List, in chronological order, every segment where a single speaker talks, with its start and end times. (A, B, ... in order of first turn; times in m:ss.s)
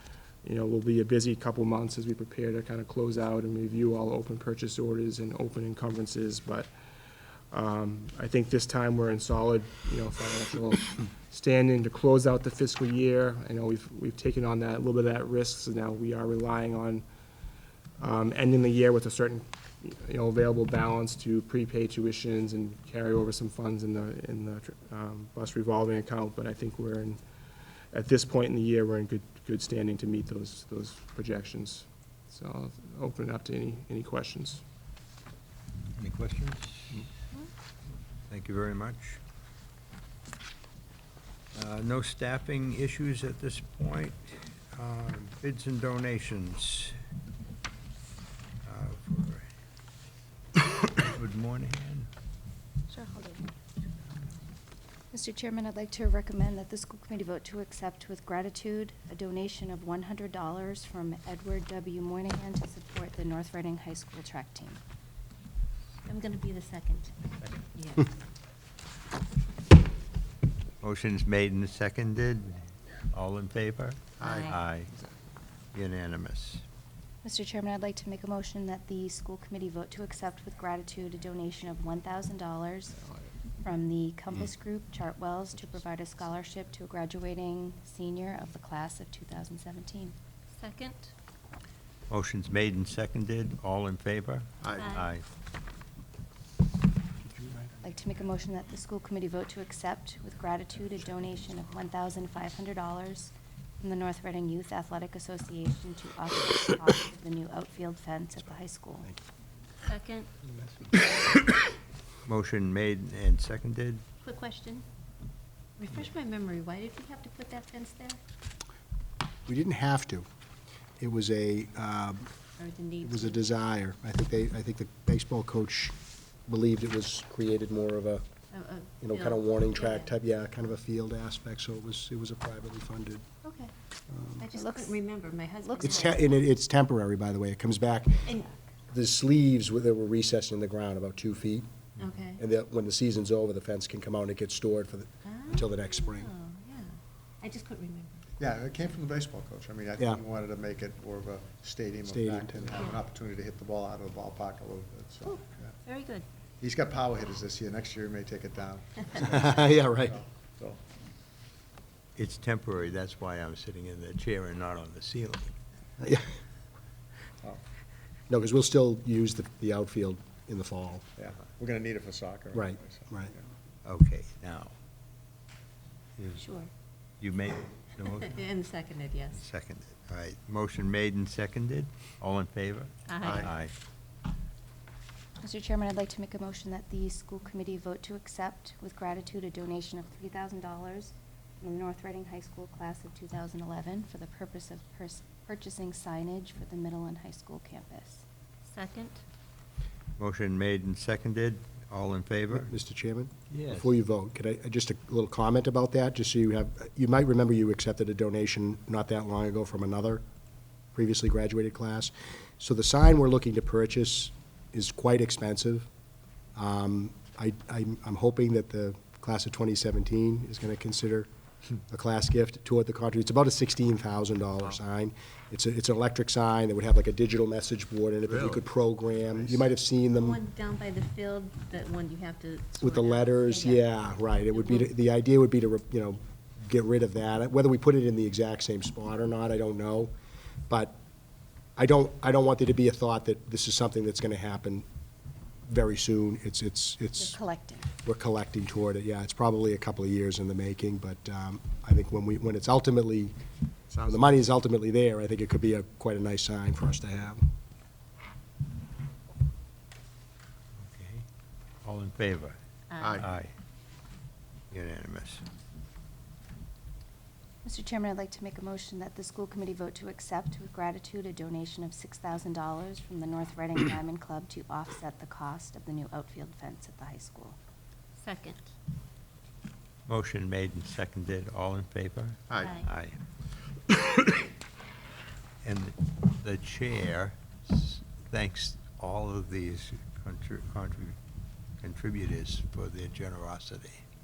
0:00.4-0:06.7 A
0:07.5-0:17.0 A
0:18.0-0:27.2 A
0:27.9-0:34.6 A
0:36.0-0:37.0 B
0:38.3-0:39.2 B
0:41.5-0:46.9 B
0:48.6-0:49.5 B
0:50.6-0:52.1 B
0:55.1-1:04.8 C
1:06.1-1:07.2 D
1:07.7-1:08.1 D
1:10.8-1:14.9 B
1:14.2-1:14.6 E
1:14.2-1:14.6 D
1:15.7-1:16.6 B
1:17.2-1:22.9 C
1:23.6-1:30.1 C
1:30.6-1:31.1 D
1:32.1-1:35.2 B
1:34.6-1:35.0 E
1:34.8-1:35.0 D
1:37.3-1:37.8 E
1:37.8-1:49.1 C
1:49.9-1:50.3 D
1:52.2-1:54.0 B
1:54.2-1:54.8 D
1:55.8-1:58.2 D
1:59.5-2:00.2 F
2:01.0-2:02.3 F
2:02.6-2:03.4 D
2:03.0-2:05.9 F
2:06.5-2:08.2 F
2:08.5-2:10.1 D
2:09.0-2:13.2 F
2:13.4-2:13.7 D
2:14.1-2:14.4 F
2:14.4-2:16.3 D
2:14.5-2:15.0 C
2:15.6-2:16.0 C
2:15.8-2:18.3 F
2:18.2-2:18.5 D
2:18.9-2:21.6 F
2:22.0-2:22.4 D
2:22.4-2:26.3 F
2:25.2-2:28.2 D
2:28.4-2:35.7 E
2:32.1-2:32.8 F
2:35.2-2:36.2 D
2:36.6-2:40.8 E
2:39.2-2:40.1 F
2:42.2-2:45.5 B
2:46.0-2:46.3 F
2:48.3-2:51.1 F
2:51.2-2:53.4 E
2:52.5-2:53.3 F
2:53.8-2:54.7 B
2:56.2-2:56.4 B
2:56.4-2:56.7 D
2:57.2-2:58.4 B
2:58.2-2:59.4 D
2:59.3-3:03.7 B
3:03.1-3:03.5 D
3:03.2-3:03.5 E
3:05.4-3:18.2 C
3:18.7-3:19.2 D
3:20.2-3:22.7 B
3:22.5-3:30.2 F
3:23.5-3:23.8 B
3:30.9-3:35.9 F
3:36.5-3:41.3 F
3:41.9-3:50.4 F
3:48.3-3:48.6 B
3:50.1-3:54.9 D
3:52.8-4:00.1 F
4:00.7-4:01.0 F
4:01.8-4:04.8 F
4:05.6-4:07.4 F
4:07.2-4:07.9 C
4:08.0-4:13.3 F
4:13.9-4:14.4 E
4:14.0-4:17.5 F
4:20.8-4:21.2 B
4:21.8-4:22.6 B
4:22.9-4:23.2 D
4:23.0-4:23.3 E
4:23.2-4:23.5 B
4:24.7-4:25.4 B
4:27.6-4:37.6 C
4:38.2-4:38.7 D
4:40.1-4:43.2 B
4:42.5-4:42.8 E
4:42.6-4:42.9 D
4:45.6-4:51.2 B
4:51.8-4:54.0 B